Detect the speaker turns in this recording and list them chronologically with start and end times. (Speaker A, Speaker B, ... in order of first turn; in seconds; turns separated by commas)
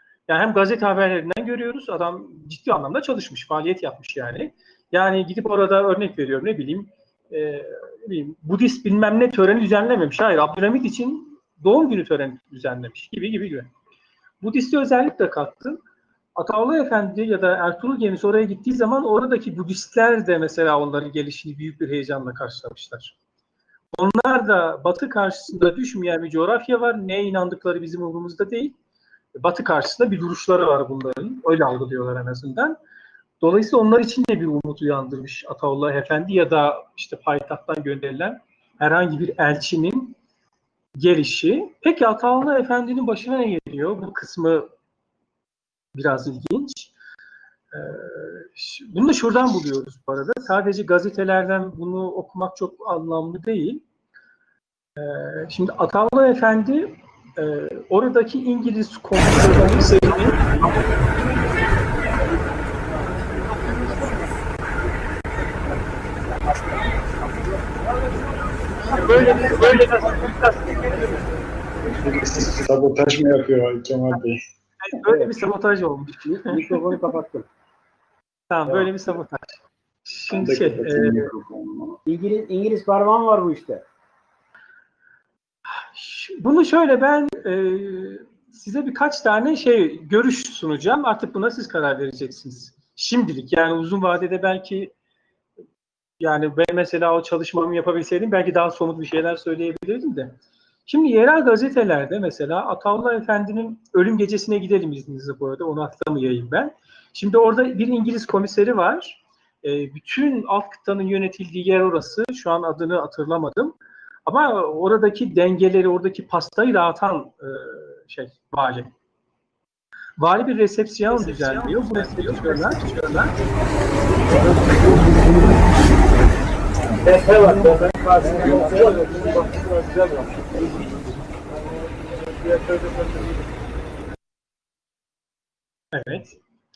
Speaker A: 0.3-13.7, Speaker A: 14.4-15.8, Speaker A: 16.4-23.1, Speaker A: 23.9-28.7, Speaker A: 29.4-32.8, Speaker A: 33.4-40.1, Speaker A: 41.0-44.7, Speaker A: 45.9-46.9, Speaker A: 47.7-53.8, Speaker A: 55.0-60.4, Speaker A: 69.0-70.5, Speaker B: 72.0-74.4, Speaker A: 74.8-77.0, Speaker C: 75.1-75.3, Speaker C: 76.2-77.5, Speaker A: 78.5-81.3, Speaker B: 80.3-82.0, Speaker C: 82.0-83.8, Speaker A: 85.7-94.9, Speaker A: 96.2-100.3, Speaker A: 100.9-113.7, Speaker A: 114.2-118.9, Speaker A: 120.2-123.3, Speaker C: 127.1-129.8, Speaker A: 135.9-136.4